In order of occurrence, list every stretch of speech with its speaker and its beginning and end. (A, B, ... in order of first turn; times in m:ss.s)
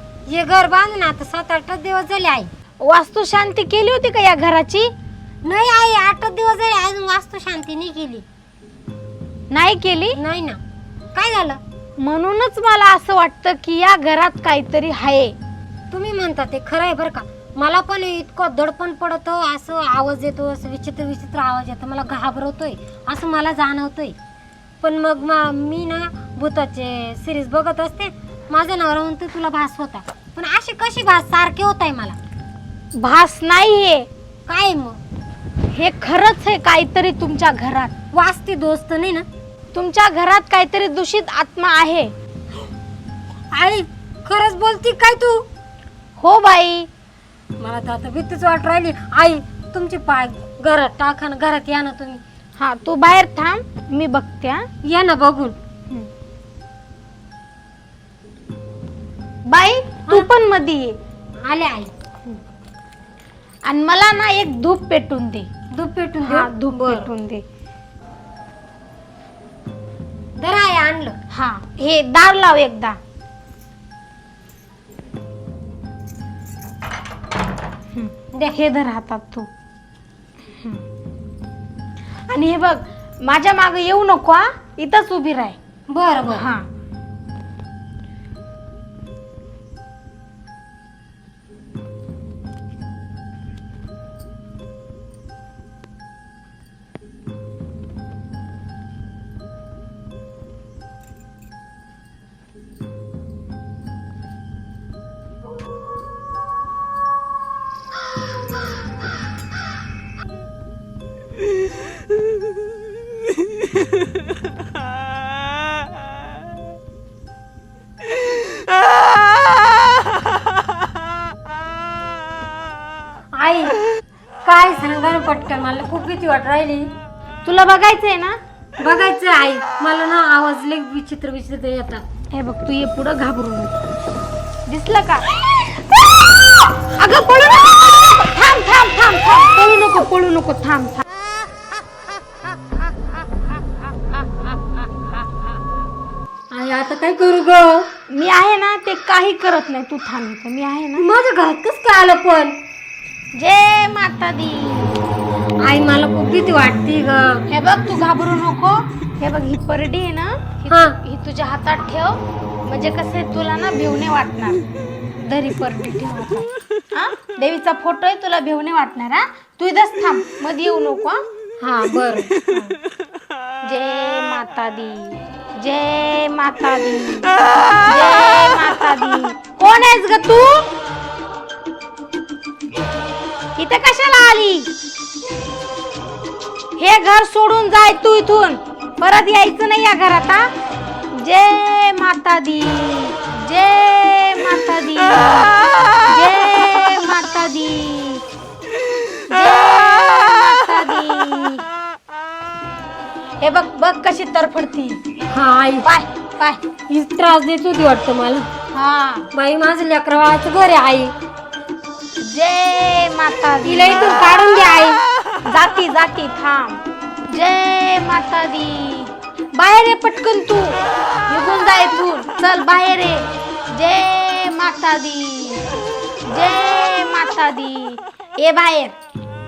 0:00.3-0:02.5 A
0:02.8-0:04.9 B
0:05.4-0:08.2 A
0:09.5-0:10.2 B
0:10.1-0:10.6 A
0:11.1-0:11.6 A
0:12.0-0:15.3 B
0:15.9-0:24.2 A
0:24.8-0:32.2 A
0:33.0-0:34.1 B
0:34.5-0:35.0 A
0:35.7-0:37.9 B
0:38.1-0:39.2 A
0:39.7-0:42.1 B
0:43.5-0:45.4 A
0:46.2-0:46.9 B
0:47.6-0:52.2 A
0:52.6-0:54.6 B
0:54.8-0:55.6 A
0:59.5-1:01.0 B
1:01.4-1:01.9 A
1:03.6-1:05.5 B
1:05.7-1:07.1 A
1:06.2-1:07.4 B
1:10.4-1:11.2 A
1:11.3-1:13.0 B
1:17.9-1:19.5 B
1:22.3-1:25.6 B
1:25.9-1:26.5 A
1:26.3-1:26.6 B
2:03.3-2:03.7 A
2:04.4-2:06.9 A
2:07.4-2:08.4 B
2:08.8-2:12.0 A
2:12.3-2:13.7 B
2:14.7-2:15.3 B
2:16.9-2:21.0 B
2:26.5-2:27.9 A
2:28.1-2:31.0 B
2:31.0-2:32.6 A
2:33.3-2:35.0 B
2:35.6-2:37.4 A
2:37.5-2:44.6 B
2:40.7-2:41.0 A
2:45.2-2:51.2 B
2:51.6-2:52.3 A
2:52.5-2:52.7 B
2:53.6-3:00.7 B
3:03.6-3:04.7 B
3:06.8-3:10.5 B
3:11.1-3:15.6 B
3:16.1-3:18.2 B
3:19.3-3:21.6 B
3:23.4-3:25.0 B
3:25.3-3:25.9 A
3:25.8-3:26.6 B
3:26.9-3:28.5 A
3:28.7-3:29.3 B
3:29.3-3:31.1 A
3:32.2-3:34.4 B
3:33.6-3:35.0 A
3:35.4-3:45.6 B
3:46.3-3:48.9 B